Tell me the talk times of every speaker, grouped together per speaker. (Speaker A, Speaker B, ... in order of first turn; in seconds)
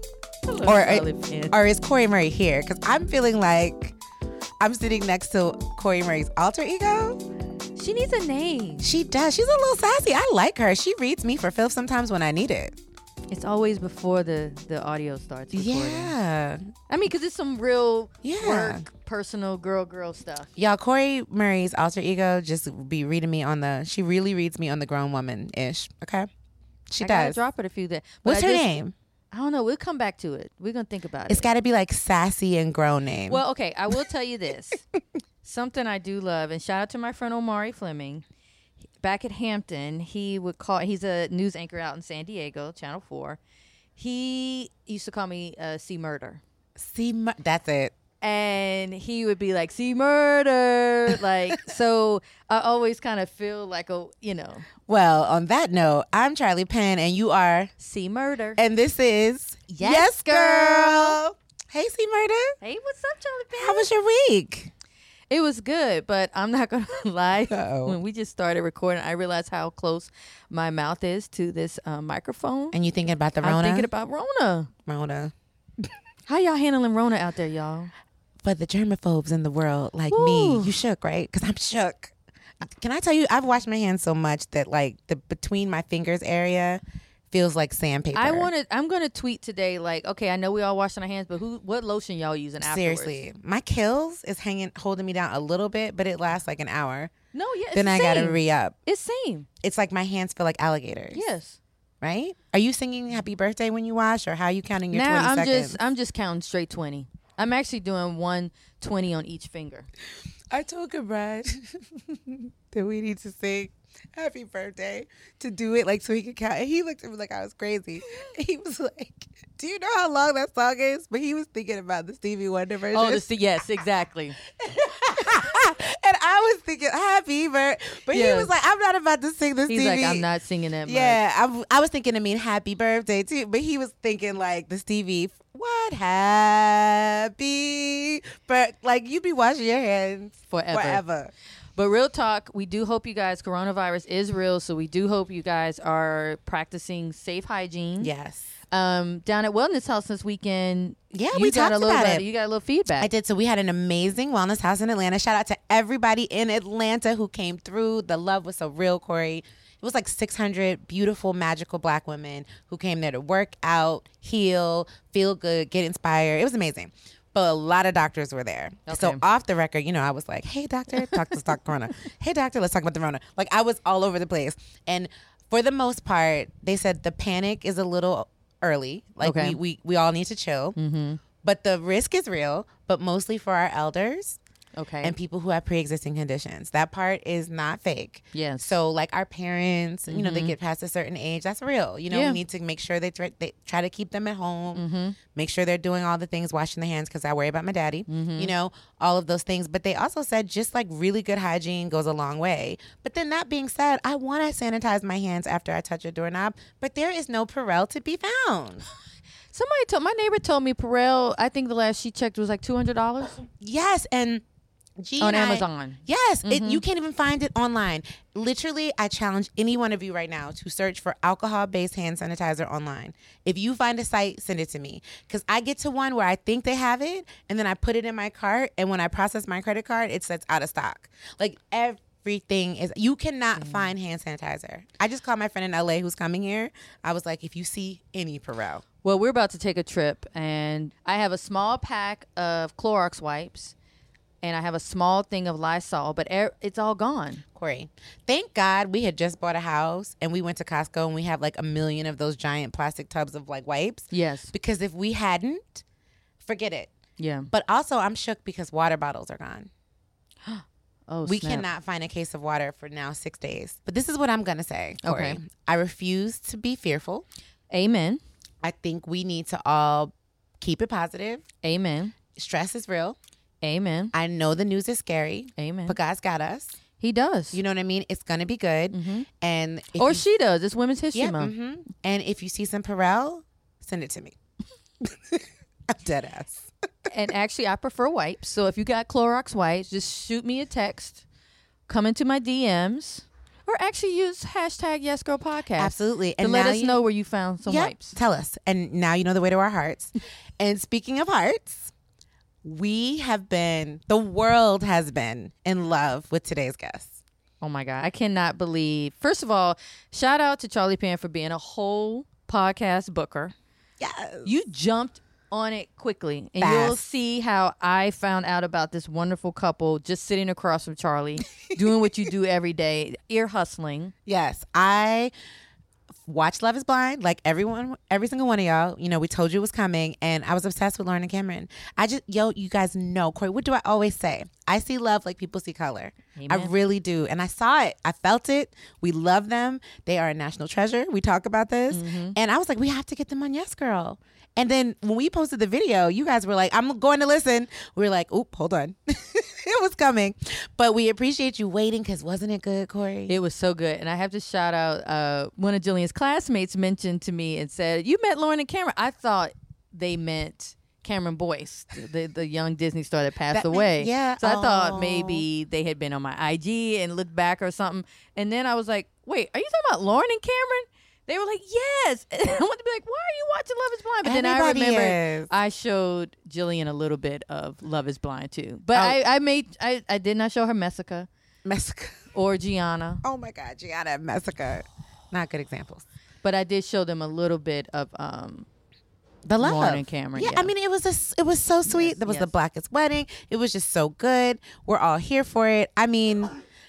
Speaker A: 0.5-1.6, 7.8-8.9, 13.3-16.1, 16.9-20.5, 27.0-28.8, 29.3-31.5, 33.3-34.8, 35.4-38.2, 39.0-43.4, 44.0-46.4, 48.2-54.7, 57.8-58.6, 59.8-61.2, 62.6-63.9, 65.3-72.8, 73.4-74.7, 76.3-77.9, 80.1-80.8, 88.1-93.1, 97.3-99.5, 101.1-101.6, 104.9-109.9, 122.9-124.4, 128.1-128.5, 129.7-131.2, 140.5-141.0, 141.8-148.1, 148.7-153.1, 168.9-169.2, 179.2-179.6, 180.8-181.2, 184.8-185.2, 188.3-188.7, 190.1-190.5, 192.1-192.4, 194.7-195.2, 198.1-198.5, 209.5-213.4, 215.2-216.8, 233.6-233.9, 239.0-243.7, 244.4-247.4, 254.1-254.5, 257.2-257.5, 260.4-261.6, 265.0-265.4, 267.7-268.2, 271.6-272.1, 273.6-274.1, 275.6-276.0, 277.0-277.6, 278.9-279.3, 279.9-281.5, 287.1-291.2, 291.9-298.2, 307.6-313.5, 314.4-324.1, 336.4-336.7, 341.9-342.4, 353.3-381.3, 382.3-383.2, 386.4-388.7, 389.6-390.7, 391.9-392.5
Speaker B: 0.6-4.0, 4.6-7.2, 8.8-12.8, 15.5-16.6, 18.2-18.9, 20.6-26.3, 26.9-27.4, 28.2-28.9, 31.3-33.4, 46.8-47.9, 54.9-57.7, 58.5-62.5, 63.5-64.7, 67.5-68.0, 72.7-73.9, 74.9-75.9, 78.4-88.5, 92.6-97.1, 97.7-98.7, 99.6-101.2, 102.0-105.8, 110.5-123.2, 124.5-130.3, 130.8-141.3, 148.0-148.4, 151.1-152.2, 153.0-180.8, 181.4-184.4, 185.0-194.8, 195.3-208.8, 213.6-214.4, 215.0-238.8, 247.5-255.8, 256.4-256.9, 257.5-259.7, 261.2-267.2, 268.6-271.4, 272.3-273.1, 274.1-276.8, 277.5-280.2, 281.1-284.4, 285.0-286.7, 295.8-297.0, 297.6-301.9, 302.6-307.2, 314.0-314.5, 316.6-317.0, 324.2-325.3, 326.2-353.4, 363.5-365.4, 374.2-375.5, 378.9-379.2, 381.6-382.2, 383.2-386.0, 389.4-396.6